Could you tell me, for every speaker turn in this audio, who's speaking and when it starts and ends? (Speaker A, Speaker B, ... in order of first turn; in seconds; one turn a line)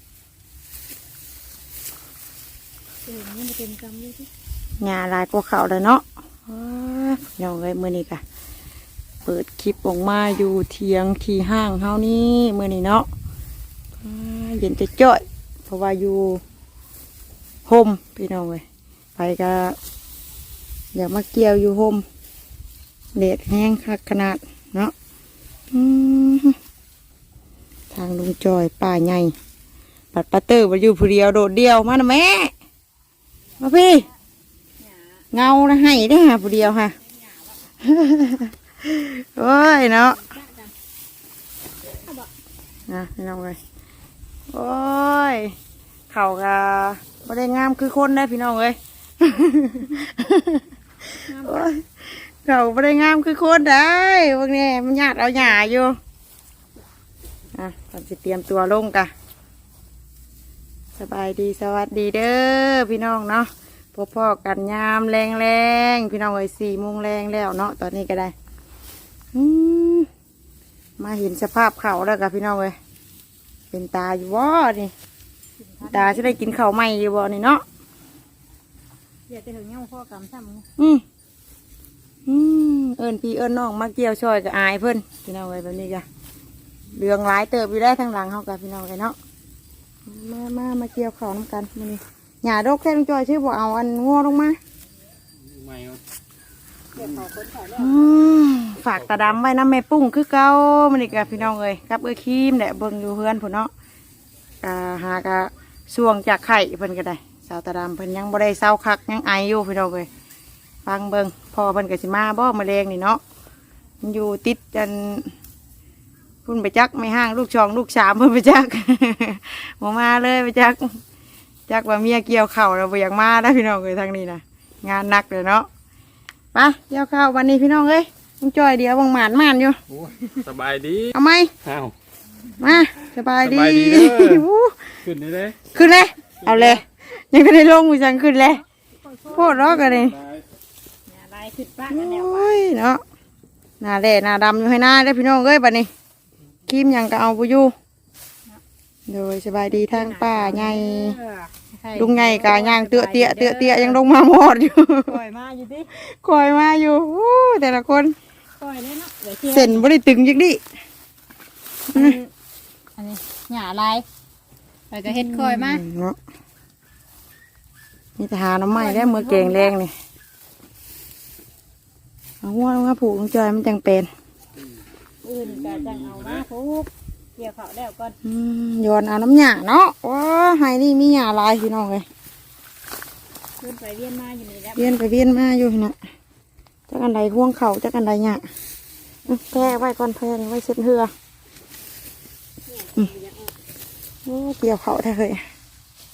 Speaker A: 3.0-4.3
Speaker B: 4.8-8.2
Speaker B: 9.2-13.1
Speaker B: 14.0-16.4
Speaker B: 17.7-18.6
Speaker B: 19.2-19.8
Speaker B: 20.9-22.1
Speaker B: 23.1-24.9
Speaker B: 25.7-26.6
Speaker B: 27.9-29.3
Speaker B: 30.1-32.5
Speaker B: 33.6-34.1
Speaker A: 34.8-35.2
Speaker B: 35.3-37.0
Speaker B: 37.8-40.2
Speaker A: 40.1-40.7
Speaker A: 42.0-42.3
Speaker B: 42.9-43.6
Speaker B: 44.5-45.6
Speaker B: 46.1-56.0
Speaker A: 51.3-51.7
Speaker B: 57.5-59.1
Speaker B: 61.0-68.3
Speaker B: 69.3-70.1
Speaker B: 71.0-72.8
Speaker B: 73.7-74.9
Speaker A: 75.6-76.3
Speaker B: 75.9-77.6
Speaker A: 79.3-80.7
Speaker B: 80.8-81.0
Speaker B: 82.3-86.1
Speaker B: 87.0-89.2
Speaker B: 90.1-94.6
Speaker C: 95.3-96.0
Speaker A: 96.9-98.1
Speaker C: 97.0-97.2
Speaker B: 97.8-103.7
Speaker C: 98.9-99.4
Speaker B: 104.6-110.1
Speaker B: 110.8-113.2
Speaker B: 114.0-115.3
Speaker B: 116.5-121.0
Speaker B: 121.7-125.7
Speaker B: 126.5-129.8
Speaker C: 129.9-131.9
Speaker B: 131.1-131.5
Speaker B: 132.6-135.0
Speaker C: 133.4-134.4
Speaker C: 135.0-135.7
Speaker B: 135.7-138.6
Speaker C: 136.4-136.8
Speaker A: 139.0-139.8
Speaker B: 139.3-140.2
Speaker C: 139.9-140.4
Speaker A: 141.1-142.4
Speaker B: 141.9-143.0
Speaker B: 143.8-145.9
Speaker B: 146.7-147.7
Speaker B: 149.1-151.2
Speaker A: 149.8-154.0
Speaker B: 152.0-155.2
Speaker A: 155.1-155.9
Speaker B: 155.9-158.2
Speaker A: 158.6-159.8
Speaker B: 159.5-160.6
Speaker B: 161.9-162.2
Speaker A: 161.9-162.3
Speaker A: 163.0-164.1
Speaker A: 164.9-165.8
Speaker B: 165.1-166.2
Speaker B: 168.2-169.9
Speaker A: 168.7-169.7
Speaker B: 172.4-174.1
Speaker A: 175.2-178.2
Speaker C: 175.4-176.4
Speaker B: 178.2-182.1
Speaker A: 183.6-185.1
Speaker B: 184.8-186.0
Speaker B: 186.9-188.5
Speaker A: 189.3-189.7
Speaker B: 189.3-191.1
Speaker A: 192.7-193.5
Speaker B: 194.2-195.5